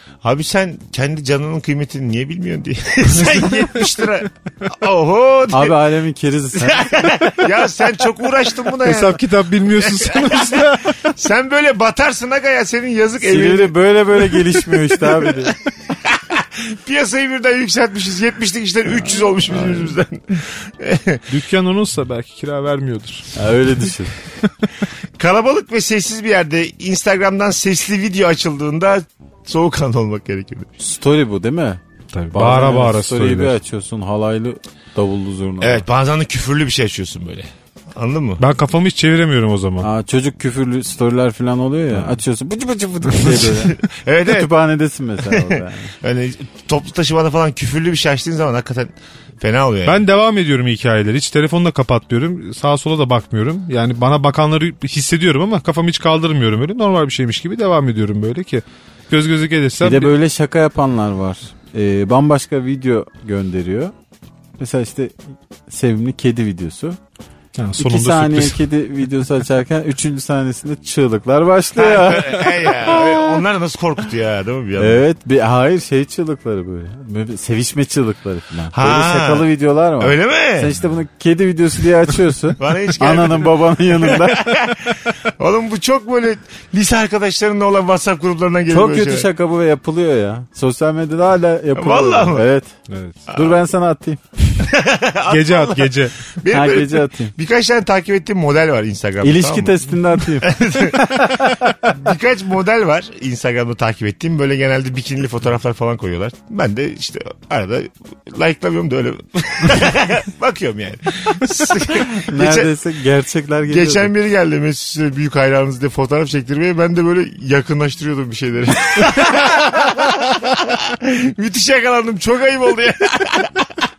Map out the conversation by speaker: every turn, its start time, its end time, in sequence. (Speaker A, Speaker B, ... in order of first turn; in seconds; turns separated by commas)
Speaker A: 0.2-5.8, Speaker B: 3.2-3.9, Speaker C: 5.5-7.1, Speaker A: 6.6-9.2, Speaker B: 8.8-11.1, Speaker A: 9.7-13.8, Speaker C: 13.2-15.6, Speaker A: 16.0-21.3, Speaker B: 21.3-23.3, Speaker C: 23.4-24.1, Speaker A: 25.2-30.7, Speaker C: 30.8-31.8, Speaker B: 32.1-33.5, Speaker C: 32.3-35.8, Speaker A: 35.6-38.4, Speaker B: 38.4-39.9, Speaker C: 39.8-45.9, Speaker B: 43.2-43.5, Speaker A: 43.7-44.5, Speaker A: 45.3-50.0, Speaker B: 49.9-60.1, Speaker C: 59.8-63.9, Speaker C: 64.6-65.2, Speaker C: 65.7-67.0, Speaker B: 67.6-68.6, Speaker C: 67.8-72.5, Speaker A: 71.8-75.0, Speaker C: 74.8-84.5, Speaker A: 78.7-79.5, Speaker A: 80.0-80.7, Speaker A: 82.6-89.3, Speaker C: 88.7-92.7, Speaker A: 91.8-92.5, Speaker B: 92.9-93.2, Speaker A: 93.3-93.5, Speaker C: 93.3-94.2, Speaker A: 94.6-99.8, Speaker B: 95.3-96.2, Speaker C: 96.5-97.3, Speaker C: 99.2-101.9, Speaker A: 100.4-112.7, Speaker C: 112.2-114.1, Speaker A: 113.7-123.7